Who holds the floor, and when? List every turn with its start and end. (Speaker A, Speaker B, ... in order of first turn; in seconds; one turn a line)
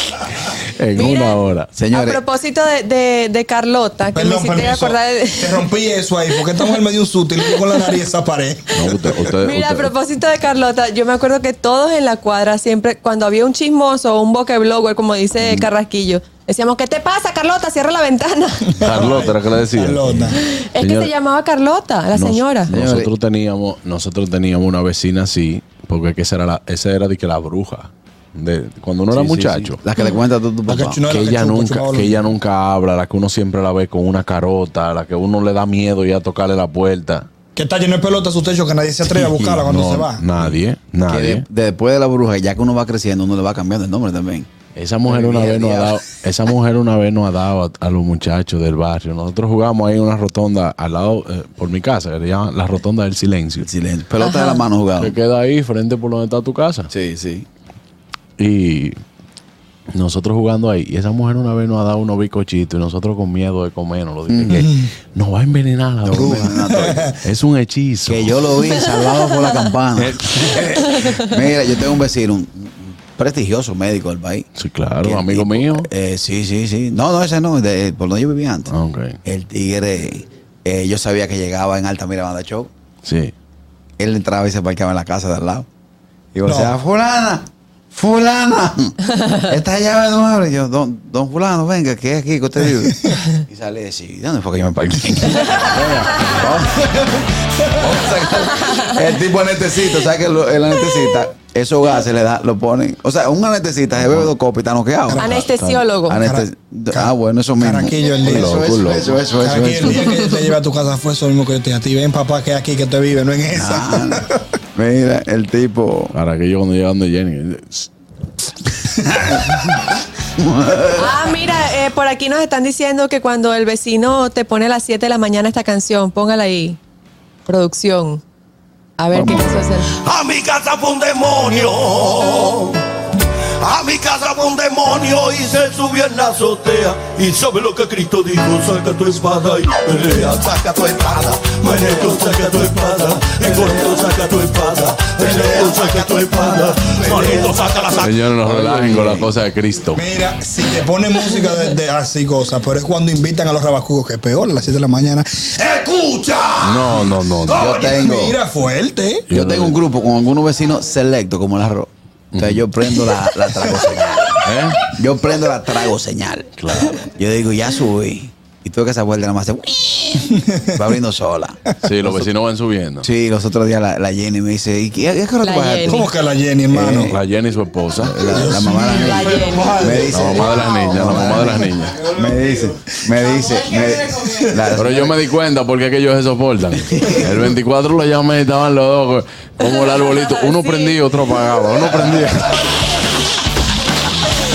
Speaker A: 0.5-1.7
Speaker B: 0.9-5.7
Speaker C: 1.7-2.2
Speaker D: 4.1-9.4
Speaker A: 8.7-9.9
Speaker B: 9.4-18.7
Speaker C: 15.4-15.6
Speaker D: 18.7-20.4
Speaker A: 18.8-21.1
Speaker B: 20.4-22.7
Speaker A: 22.1-29.8
Speaker C: 22.7-23.1
Speaker C: 29.1-31.0
Speaker D: 30.7-32.2
Speaker A: 31.1-37.3
Speaker D: 37.5-40.2
Speaker C: 39.3-39.6
Speaker A: 39.6-41.4
Speaker C: 41.1-44.5
Speaker A: 44.8-53.6
Speaker C: 45.0-46.0
Speaker C: 53.6-55.1
Speaker B: 54.2-54.6
Speaker A: 55.0-56.9
Speaker C: 56.9-57.5
Speaker A: 58.4-59.0
Speaker A: 59.9-68.4
Speaker C: 64.3-64.7
Speaker C: 66.0-67.1
Speaker D: 66.1-67.2
Speaker C: 68.1-74.5
Speaker A: 70.0-71.0
Speaker A: 74.6-75.9
Speaker C: 75.0-78.7
Speaker A: 78.7-79.2
Speaker C: 79.2-82.7
Speaker A: 83.0-83.3
Speaker C: 84.0-85.7
Speaker C: 86.3-105.3
Speaker D: 86.5-86.7
Speaker A: 95.0-95.7
Speaker A: 104.0-104.3
Speaker A: 105.2-105.9
Speaker B: 105.2-106.2
Speaker C: 106.1-110.0
Speaker D: 106.1-108.8
Speaker A: 108.2-109.2
Speaker D: 109.4-114.2
Speaker C: 113.5-114.2
Speaker C: 114.8-116.1
Speaker A: 116.1-117.9
Speaker C: 120.4-121.1
Speaker B: 120.9-126.8
Speaker B: 127.5-128.2
Speaker B: 129.0-129.9
Speaker C: 129.1-129.7
Speaker E: 130.0-132.8
Speaker E: 133.6-148.3
Speaker D: 143.7-144.1
Speaker D: 145.0-147.6
Speaker A: 148.0-150.0
Speaker C: 148.4-149.3
Speaker D: 149.9-159.2
Speaker A: 156.6-157.7
Speaker C: 157.6-158.4
Speaker A: 159.3-159.8
Speaker C: 159.3-171.6
Speaker A: 162.3-162.6
Speaker A: 164.4-164.8
Speaker A: 166.6-167.0
Speaker D: 170.3-170.7
Speaker A: 171.8-173.1
Speaker C: 173.0-176.1
Speaker B: 175.4-176.1
Speaker D: 175.9-177.2
Speaker C: 176.7-177.2
Speaker A: 177.1-178.2
Speaker C: 178.0-185.2
Speaker D: 178.2-180.4
Speaker B: 179.1-179.8
Speaker A: 180.1-182.0
Speaker B: 180.4-181.0
Speaker D: 181.4-182.8
Speaker D: 183.8-184.6
Speaker A: 184.7-192.6